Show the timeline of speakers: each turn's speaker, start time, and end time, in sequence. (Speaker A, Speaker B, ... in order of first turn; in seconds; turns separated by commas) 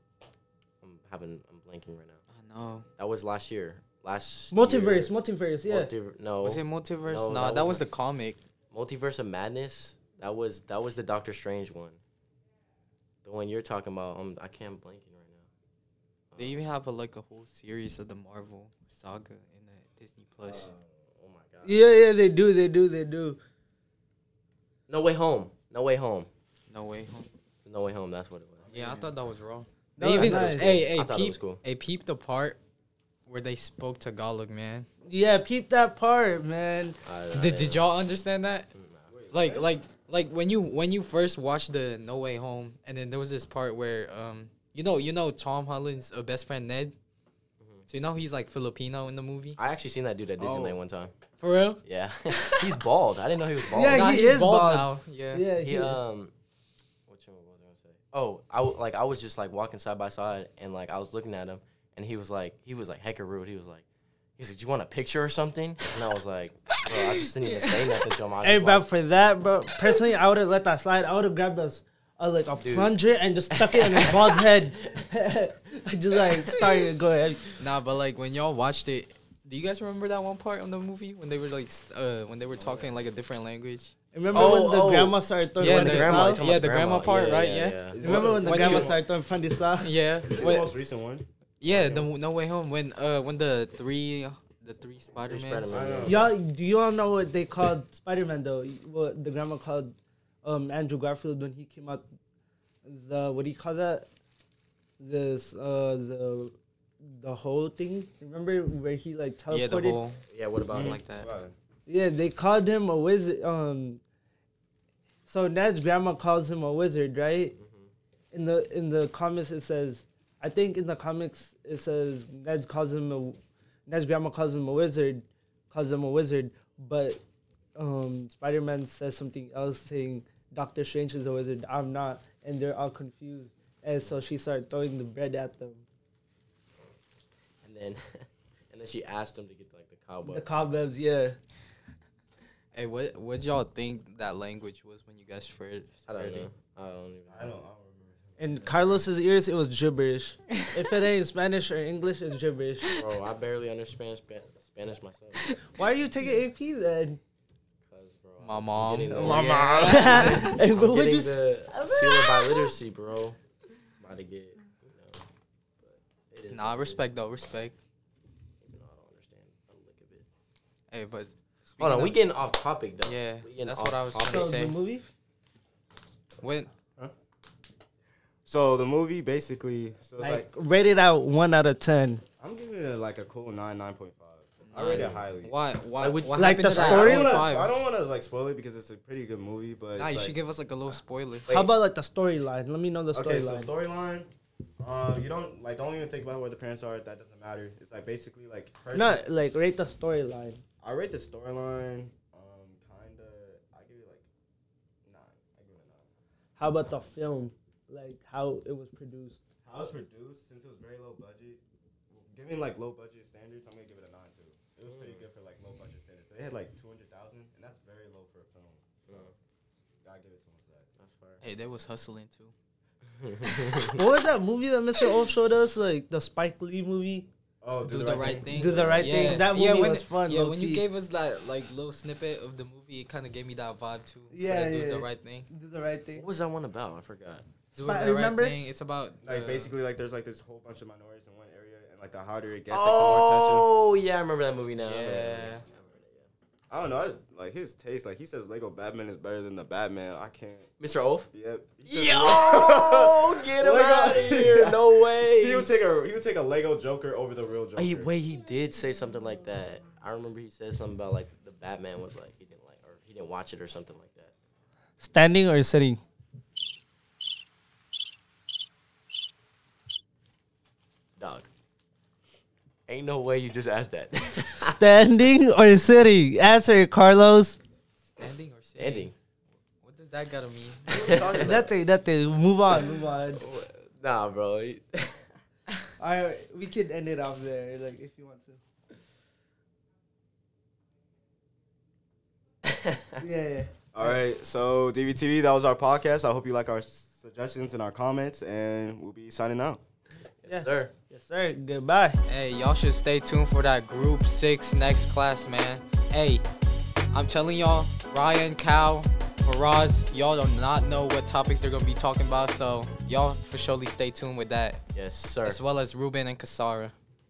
Speaker A: 0.8-2.2, Speaker B: 2.3-2.9, Speaker A: 3.0-5.1, Speaker C: 4.5-5.9, Speaker A: 5.7-7.9, Speaker B: 6.4-8.4, Speaker A: 8.7-12.0, Speaker A: 13.2-15.5, Speaker A: 16.3-16.6, Speaker B: 16.4-20.7, Speaker A: 20.4-21.8, Speaker C: 21.6-23.4, Speaker A: 24.9-26.3, Speaker B: 26.7-27.3, Speaker A: 27.6-28.7, Speaker D: 28.6-29.3, Speaker B: 28.7-32.6, Speaker C: 30.0-30.9, Speaker A: 30.1-31.6, Speaker B: 33.3-34.9, Speaker C: 35.0-37.0, Speaker A: 37.0-37.9, Speaker B: 37.3-38.7, Speaker A: 38.7-39.1, Speaker D: 39.1-39.8, Speaker B: 39.3-47.0, Speaker A: 47.6-47.9, Speaker B: 47.9-49.6, Speaker A: 49.6-51.1, Speaker D: 50.4-50.8, Speaker B: 51.4-52.7, Speaker A: 51.8-54.3, Speaker C: 53.7-56.0, Speaker B: 53.8-55.5, Speaker A: 55.6-56.3, Speaker A: 57.1-63.9, Speaker A: 64.4-68.9, Speaker C: 68.4-77.5, Speaker A: 72.6-72.9, Speaker A: 74.0-74.4, Speaker B: 77.6-83.9, Speaker A: 82.6-82.8, Speaker C: 84.1-86.4, Speaker A: 84.3-88.0, Speaker B: 85.6-89.0, Speaker D: 87.9-89.0, Speaker C: 88.0-89.9, Speaker B: 89.8-90.7, Speaker D: 90.2-92.1, Speaker B: 91.6-96.0, Speaker A: 95.3-96.3, Speaker D: 95.7-96.3, Speaker C: 96.1-102.1, Speaker C: 102.8-104.1, Speaker C: 105.0-110.0, Speaker B: 109.5-110.2, Speaker A: 110.3-111.0, Speaker D: 110.7-111.5, Speaker B: 110.7-111.3, Speaker C: 111.9-114.0, Speaker C: 115.3-117.5, Speaker A: 117.6-117.9, Speaker C: 118.3-127.2, Speaker C: 127.8-135.9, Speaker A: 137.6-140.5, Speaker C: 140.3-141.4, Speaker B: 142.7-146.0, Speaker A: 146.1-147.6, Speaker D: 146.1-146.5, Speaker D: 147.3-149.0, Speaker C: 148.4-152.9, Speaker A: 153.0-155.5, Speaker C: 155.7-157.2, Speaker A: 157.9-163.4, Speaker B: 158.4-160.6, Speaker C: 159.1-162.7, Speaker A: 164.0-165.2, Speaker A: 165.8-167.1, Speaker B: 166.5-167.8, Speaker A: 168.6-170.3, Speaker B: 170.9-172.2, Speaker A: 171.8-174.7, Speaker B: 173.0-174.8, Speaker C: 174.3-175.1, Speaker B: 176.4-176.7, Speaker D: 178.5-180.5, Speaker C: 180.2-182.2, Speaker D: 182.4-185.6, Speaker B: 184.7-187.7, Speaker A: 184.9-185.1, Speaker A: 186.0-187.4, Speaker C: 186.4-187.4, Speaker D: 186.8-190.4, Speaker B: 190.0-191.5, Speaker C: 191.5-193.7, Speaker D: 193.1-199.2, Speaker C: 198.9-200.6, Speaker D: 200.8-204.3, Speaker D: 205.1-206.1, Speaker C: 206.6-209.4, Speaker D: 209.7-211.6, Speaker D: 212.1-219.3, Speaker A: 214.9-215.2, Speaker A: 219.1-219.3, Speaker D: 220.0-220.9, Speaker A: 221.0-221.4, Speaker B: 221.4-222.5, Speaker A: 223.1-224.0, Speaker B: 223.5-224.0, Speaker C: 224.0-227.3, Speaker D: 227.6-229.4, Speaker B: 227.9-235.5, Speaker C: 228.5-230.8, Speaker C: 234.3-236.3, Speaker A: 236.2-237.5, Speaker B: 237.8-239.7, Speaker C: 237.8-238.6, Speaker D: 239.2-243.7, Speaker A: 242.7-246.3, Speaker B: 244.8-245.6, Speaker D: 246.7-250.7, Speaker A: 250.8-251.3, Speaker D: 251.3-254.8, Speaker A: 251.8-255.7, Speaker D: 255.4-258.1, Speaker A: 257.8-264.3, Speaker C: 265.0-266.0, Speaker A: 271.2-271.5, Speaker A: 272.9-274.8, Speaker C: 274.6-277.6, Speaker B: 278.0-279.1, Speaker A: 278.8-279.1, Speaker B: 279.8-281.3, Speaker D: 280.9-281.7, Speaker A: 280.9-281.7, Speaker C: 281.4-283.4, Speaker A: 283.3-285.3, Speaker C: 286.0-288.6, Speaker A: 292.6-293.2, Speaker C: 293.2-294.2, Speaker D: 293.9-299.8, Speaker A: 300.4-300.9, Speaker C: 300.5-302.2, Speaker B: 302.3-306.4, Speaker B: 307.1-314.8, Speaker A: 314.9-315.6, Speaker B: 315.4-316.9